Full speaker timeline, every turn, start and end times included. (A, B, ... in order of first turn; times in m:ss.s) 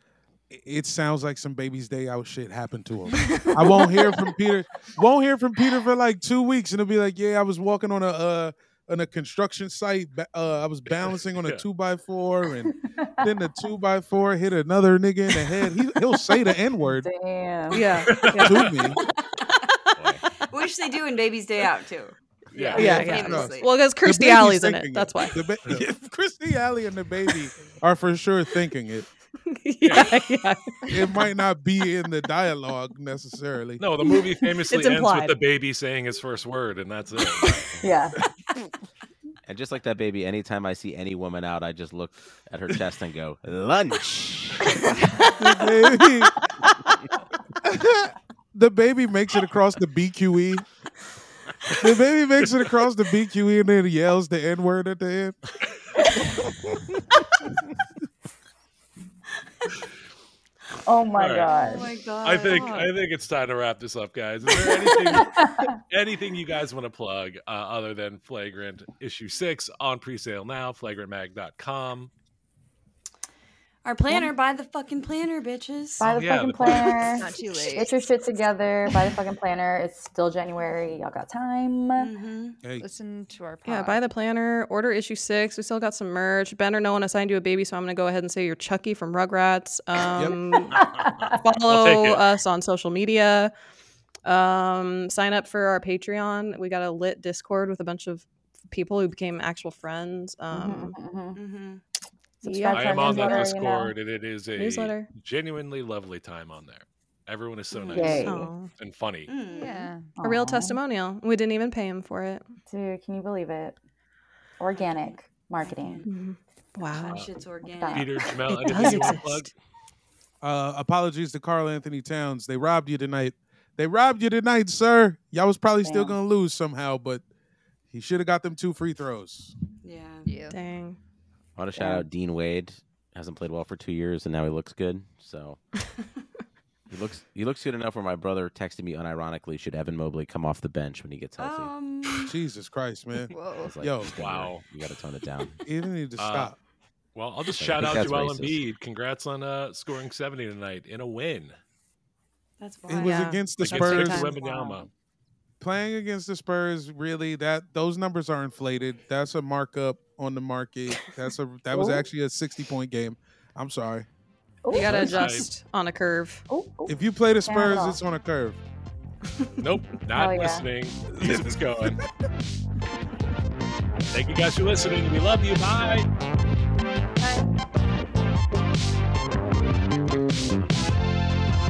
0:00.5-0:17.1 A
0:03.3-0:03.8 B
0:10.9-0:11.6 C
0:12.7-0:13.3 D
0:17.0-0:18.0 D
0:17.7-0:18.9 E
0:18.0-0:18.8 C
0:18.4-0:19.0 A
0:19.0-0:19.7 B
0:20.0-0:20.2 C
0:20.4-0:23.7 B
0:22.5-0:23.1 C
0:22.7-0:25.4 E
0:22.8-0:29.1 A
0:29.5-0:31.3 E
0:29.8-0:30.1 C
0:30.9-0:33.8 A
0:33.8-0:37.7 C
0:34.0-0:35.4 E
0:37.8-0:38.2 D
0:39.4-0:44.9 F
0:45.4-0:46.4 A
0:47.6-0:50.6 A
0:51.8-0:55.4 A
0:52.4-0:52.7 C
1:00.8-1:01.9 D
1:01.2-1:01.5 C
1:01.6-1:02.9 B
1:02.2-1:12.1 C
1:04.9-1:05.8 D
1:13.8-1:16.0 B
1:16.0-1:22.1 D
1:16.0-1:17.1 C
1:17.1-1:18.0 G
1:22.0-1:22.6 B
1:22.8-1:24.0 G
1:23.6-1:30.8 E
1:30.7-1:31.4 D
1:31.3-1:33.5 E
1:31.6-1:32.2 C
1:34.2-1:40.9 E
1:40.5-1:41.4 D
1:41.3-1:41.8 B
1:42.4-1:43.9 D
1:42.4-1:43.5 E
1:42.7-1:49.3 C
1:44.5-1:45.1 E
1:47.7-1:48.1 B
1:47.9-1:48.7 E
1:47.9-1:48.5 D
1:49.3-1:50.0 B
1:49.5-1:50.1 G
1:50.2-1:50.8 D
1:50.2-1:52.5 E
1:52.7-1:53.8 D
1:54.6-1:56.0 D
1:54.8-1:56.0 B
1:56.0-1:57.2 E
1:57.0-1:58.1 B
1:57.6-1:59.2 D
1:57.9-1:59.5 C
1:58.3-1:59.5 E
2:00.4-2:07.2 A
2:05.8-2:06.2 D
2:07.9-2:09.5 A
2:09.8-2:10.3 B
2:10.2-2:10.6 G
2:10.5-2:11.0 E
2:11.6-2:15.6 F
2:11.8-2:12.1 D
2:16.9-2:21.7 F
2:21.4-2:22.3 B
2:22.2-2:24.2 A
2:23.3-2:23.7 G
2:23.5-2:25.6 F
2:24.2-2:24.6 C
2:25.6-2:26.6 A
2:26.2-2:26.5 C
2:27.1-2:31.6 C
2:27.5-2:28.6 F
2:32.6-2:33.4 B
2:32.9-2:34.3 A
2:32.9-2:34.8 E
2:33.6-2:34.9 C
2:34.4-2:34.7 B
2:35.6-2:44.1 A
2:41.7-2:42.0 D
2:44.6-2:45.0 D
2:44.7-2:46.4 E
2:44.8-2:45.5 C
2:46.5-2:48.0 D
2:46.9-2:48.6 A
2:49.6-2:52.0 C
2:50.1-2:50.7 D
2:51.1-2:52.0 A
2:54.1-2:56.1 C